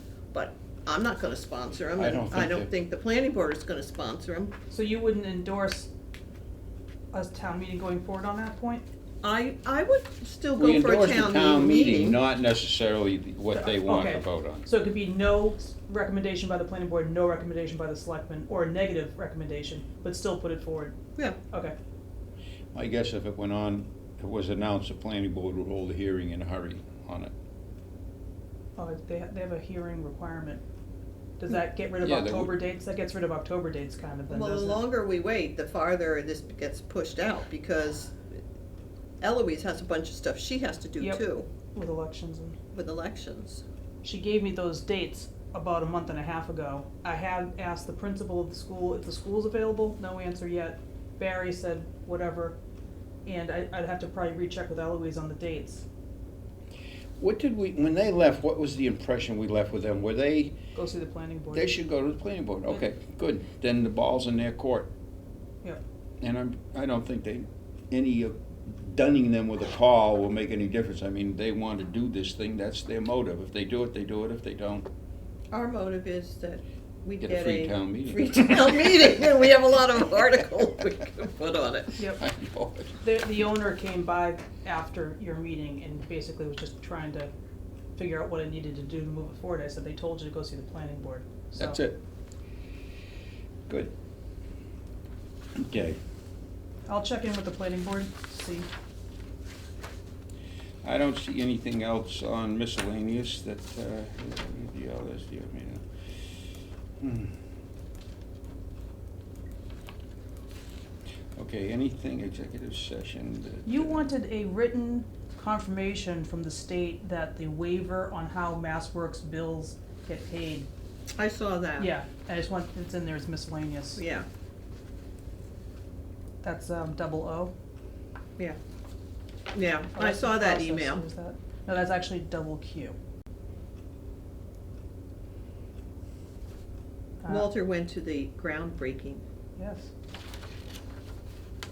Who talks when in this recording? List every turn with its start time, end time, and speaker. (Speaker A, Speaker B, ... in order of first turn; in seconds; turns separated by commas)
Speaker A: 0.3-4.5, Speaker B: 2.0-2.7, Speaker C: 4.7-5.9, Speaker C: 7.1-8.8, Speaker A: 9.2-12.2, Speaker B: 10.6-14.7, Speaker C: 13.5-21.0, Speaker B: 22.7-27.3, Speaker C: 28.8-30.6, Speaker C: 31.4-34.8, Speaker B: 32.0-32.5, Speaker A: 34.3-38.2, Speaker A: 39.2-41.5, Speaker C: 41.0-42.6, Speaker A: 42.7-43.6, Speaker C: 44.0-52.6, Speaker C: 53.2-55.9, Speaker B: 57.2-60.6, Speaker C: 60.8-61.7, Speaker B: 61.5-64.9, Speaker B: 66.2-74.9, Speaker A: 75.5-82.0, Speaker B: 77.2-79.2, Speaker C: 82.0-82.2, Speaker B: 82.2-83.0, Speaker C: 83.0-87.3, Speaker C: 88.0-91.8, Speaker B: 91.6-92.0, Speaker B: 93.7-93.9, Speaker B: 95.6-96.0, Speaker C: 96.9-98.7, Speaker B: 100.8-105.8, Speaker B: 107.0-107.4, Speaker B: 111.4-114.1, Speaker C: 113.7-120.7, Speaker A: 121.2-121.9, Speaker C: 121.8-124.0, Speaker A: 124.0-124.3, Speaker C: 126.4-127.5, Speaker A: 129.5-131.1, Speaker C: 129.9-133.0, Speaker C: 137.2-137.5, Speaker A: 137.3-139.2, Speaker C: 139.6-139.9